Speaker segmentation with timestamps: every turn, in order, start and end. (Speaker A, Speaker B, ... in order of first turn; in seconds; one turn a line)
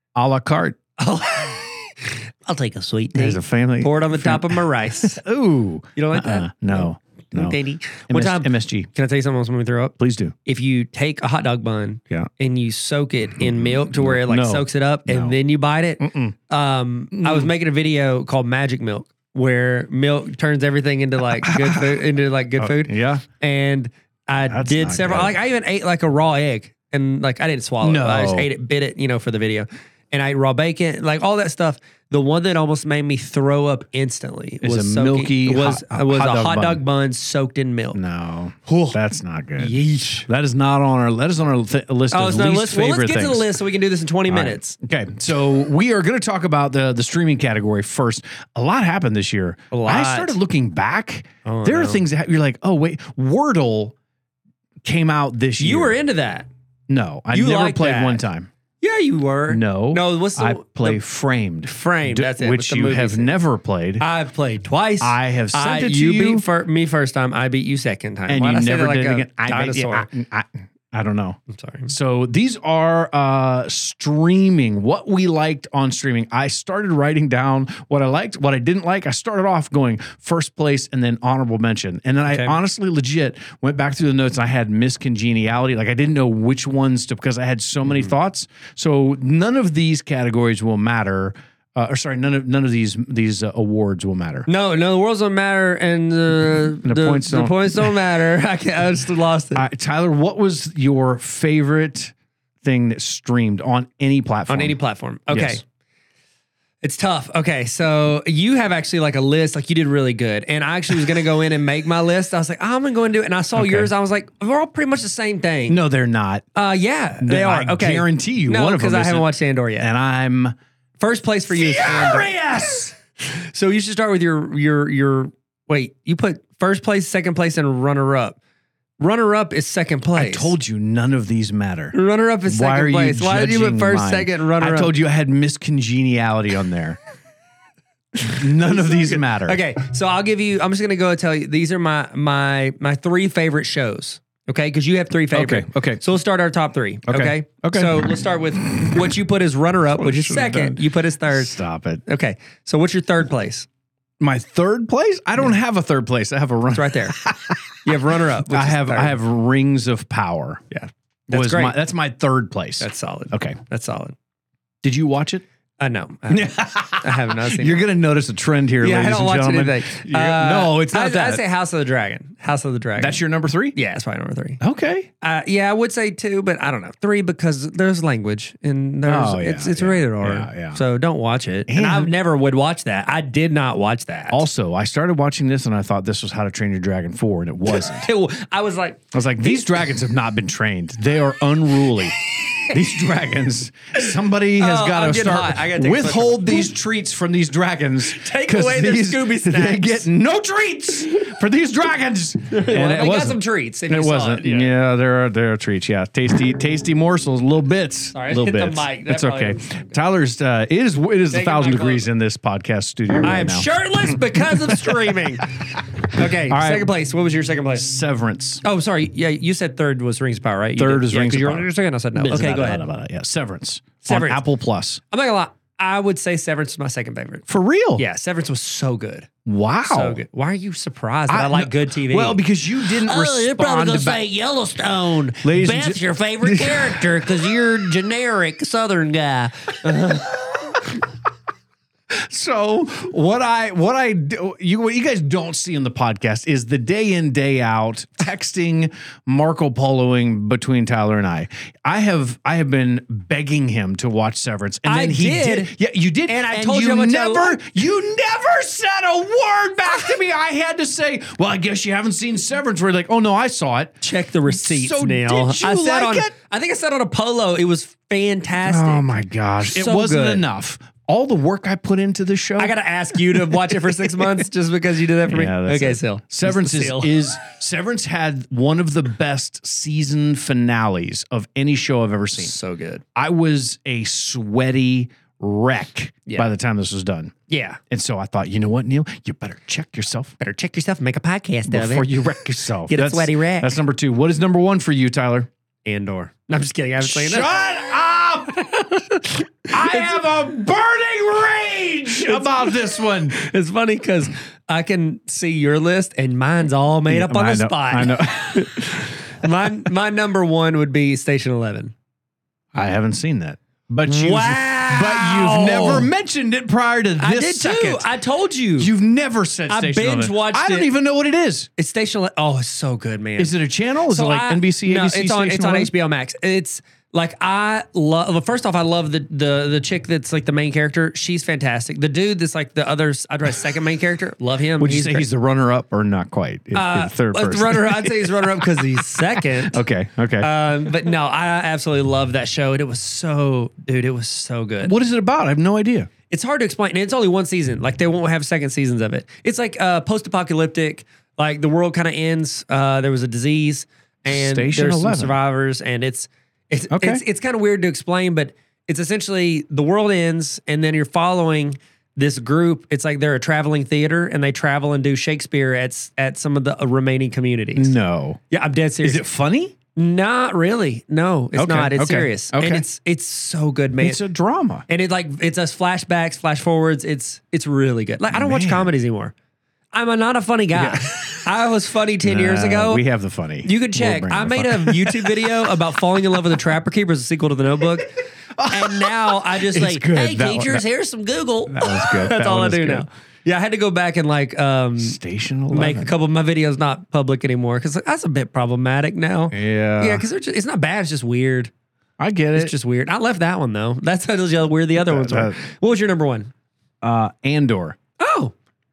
Speaker A: 0.1-0.8
Speaker B: 1.0-5.2
Speaker A: 3.1-8.9
Speaker B: 6.0-38.0
Speaker A: 10.0-10.3
Speaker A: 13.4-15.4
Speaker A: 16.0-16.4
Speaker A: 17.1-17.5
Speaker A: 21.2-23.2
Speaker A: 24.5-25.4
Speaker A: 27.8-28.5
Speaker A: 34.6-36.8
Speaker A: 37.9-43.5
Speaker B: 38.6-39.0
Speaker B: 39.6-40.3
Speaker B: 42.1-44.8
Speaker A: 44.3-53.9
Speaker B: 49.7-50.4
Speaker B: 51.4-52.0
Speaker A: 54.8-56.0
Speaker B: 55.6-56.5
Speaker A: 56.9-58.5
Speaker B: 57.3-58.3
Speaker B: 58.8-61.0
Speaker A: 59.5-64.0
Speaker B: 61.6-63.4
Speaker B: 64.0-70.1
Speaker A: 65.0-66.4
Speaker A: 68.3-94.5
Speaker B: 71.5-71.9
Speaker B: 82.3-82.5
Speaker B: 94.5-99.6
Speaker A: 96.8-98.0
Speaker A: 99.5-104.8
Speaker B: 104.5-105.6
Speaker A: 105.3-105.6
Speaker B: 106.8-115.8
Speaker A: 113.5-113.9
Speaker A: 115.7-116.5
Speaker B: 116.5-119.9
Speaker A: 117.2-120.5
Speaker B: 121.0-122.3
Speaker A: 121.5-122.9
Speaker B: 123.2-128.4
Speaker B: 129.0-130.5
Speaker A: 130.1-137.0
Speaker B: 131.9-134.9
Speaker A: 138.2-139.6
Speaker B: 138.2-153.7
Speaker A: 145.3-146.0
Speaker A: 147.1-149.2
Speaker A: 149.9-152.0
Speaker A: 154.2-160.6
Speaker B: 156.7-157.2
Speaker B: 157.8-159.2
Speaker B: 160.7-161.8
Speaker A: 161.3-163.6
Speaker B: 162.8-164.2
Speaker A: 164.8-165.4
Speaker B: 165.8-167.8
Speaker A: 166.3-171.4
Speaker B: 168.8-173.2
Speaker A: 173.0-173.8
Speaker B: 173.7-174.6
Speaker A: 174.6-175.1
Speaker B: 175.2-184.4
Speaker A: 179.1-180.8
Speaker A: 181.7-182.1
Speaker A: 184.3-188.1
Speaker B: 187.7-189.7
Speaker A: 189.1-216.9
Speaker B: 192.3-192.8
Speaker B: 194.6-196.7
Speaker B: 198.0-200.1
Speaker B: 202.5-204.7
Speaker B: 208.1-209.8
Speaker B: 211.3-212.1
Speaker B: 213.2-217.9
Speaker A: 217.8-218.6
Speaker B: 218.6-222.8
Speaker A: 220.8-225.0
Speaker B: 224.0-224.4
Speaker B: 225.1-227.4
Speaker A: 227.5-228.0
Speaker B: 228.0-229.3
Speaker A: 229.4-230.2
Speaker B: 229.9-240.8
Speaker A: 231.3-234.2
Speaker A: 235.4-237.6
Speaker A: 242.1-266.3
Speaker B: 254.8-255.7
Speaker B: 256.3-257.6
Speaker B: 264.0-270.4
Speaker A: 268.6-272.7
Speaker B: 272.6-277.2
Speaker A: 273.2-274.2
Speaker A: 275.3-282.5
Speaker B: 282.4-283.0
Speaker A: 283.1-287.4
Speaker B: 287.5-287.8
Speaker A: 287.9-290.4
Speaker B: 290.4-293.7
Speaker A: 291.7-295.5
Speaker B: 295.8-297.6
Speaker A: 297.0-298.8
Speaker B: 298.6-300.1
Speaker A: 299.7-303.3
Speaker B: 302.1-302.8
Speaker B: 303.3-311.9
Speaker A: 307.1-309.5
Speaker A: 312.7-318.1
Speaker B: 314.1-316.1
Speaker B: 317.2-318.9
Speaker A: 318.8-321.7
Speaker B: 319.7-320.9
Speaker B: 321.8-323.5
Speaker A: 323.4-325.9
Speaker B: 324.1-335.3
Speaker A: 334.8-340.9
Speaker B: 336.7-339.8
Speaker B: 340.4-344.9
Speaker A: 344.8-346.1
Speaker B: 346.3-367.9
Speaker A: 354.3-355.4
Speaker A: 356.9-357.2
Speaker A: 367.8-368.4
Speaker B: 368.5-369.2
Speaker A: 369.0-369.7
Speaker B: 369.9-374.2
Speaker A: 371.5-372.8
Speaker A: 374.0-374.8
Speaker B: 374.9-379.3
Speaker A: 378.3-378.9
Speaker B: 379.9-383.0
Speaker A: 380.7-381.4
Speaker A: 382.2-385.8
Speaker B: 383.6-388.1
Speaker A: 388.6-390.8
Speaker B: 388.7-395.2
Speaker A: 391.7-393.1
Speaker A: 395.0-396.1
Speaker B: 395.7-401.7
Speaker A: 399.5-400.2
Speaker A: 402.2-402.7
Speaker B: 402.5-406.5
Speaker A: 405.0-405.6
Speaker A: 407.0-408.0
Speaker B: 408.2-408.5